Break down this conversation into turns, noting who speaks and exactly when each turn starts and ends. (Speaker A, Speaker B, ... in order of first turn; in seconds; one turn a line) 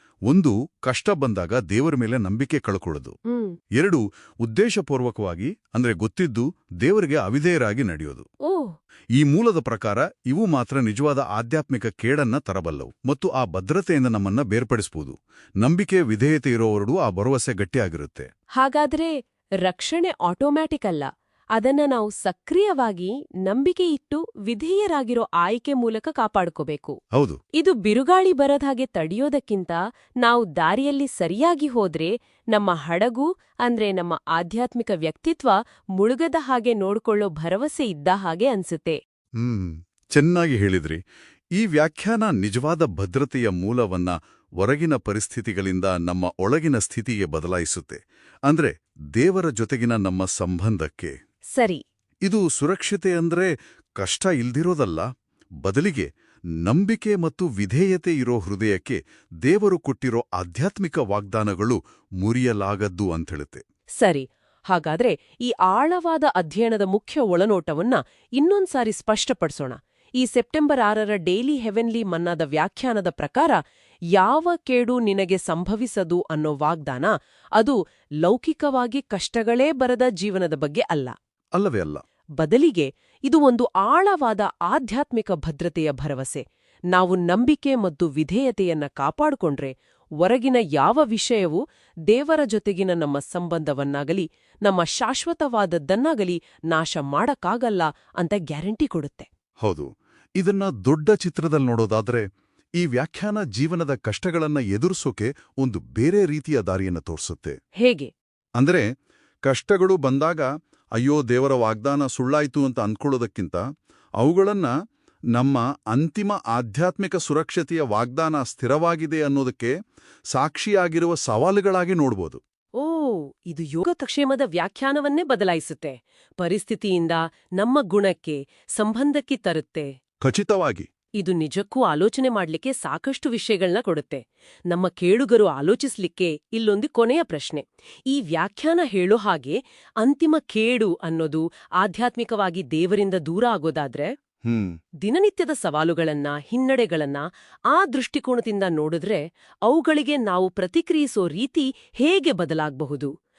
Speaker A: 0.3-3.1
Speaker B: 3.3-3.5
Speaker A: 3.8-8.2
Speaker B: 8.4-8.7
Speaker A: 9.2-18.3
Speaker B: 18.6-19.1
Speaker B: 19.6-27.0
Speaker A: 27.1-27.4
Speaker B: 27.6-39.0
Speaker A: 39.4-41.0
Speaker A: 41.6-51.1
Speaker B: 51.5-51.8
Speaker A: 52.2-55.0
Speaker A: 55.6-56.1
Speaker A: 56.6-63.6
Speaker B: 64.0-73.6
Speaker B: 74.1-81.1
Speaker A: 81.6-82.0
Speaker B: 82.4-91.6
Speaker B: 92.1-99.3
Speaker A: 99.6-102.2
Speaker A: 102.8-107.6
Speaker B: 107.8-108.1
Speaker A: 108.6-108.8
Speaker A: 109.4-113.6
Speaker A: 114.2-114.7
Speaker A: 115.3-119.7
Speaker A: 120.3-122.4
Speaker B: 122.8-129.9
Speaker A: 130.2-130.9
Speaker B: 131.2-144.1
Speaker A: 144.4-144.7
Speaker B: 145.0-153.1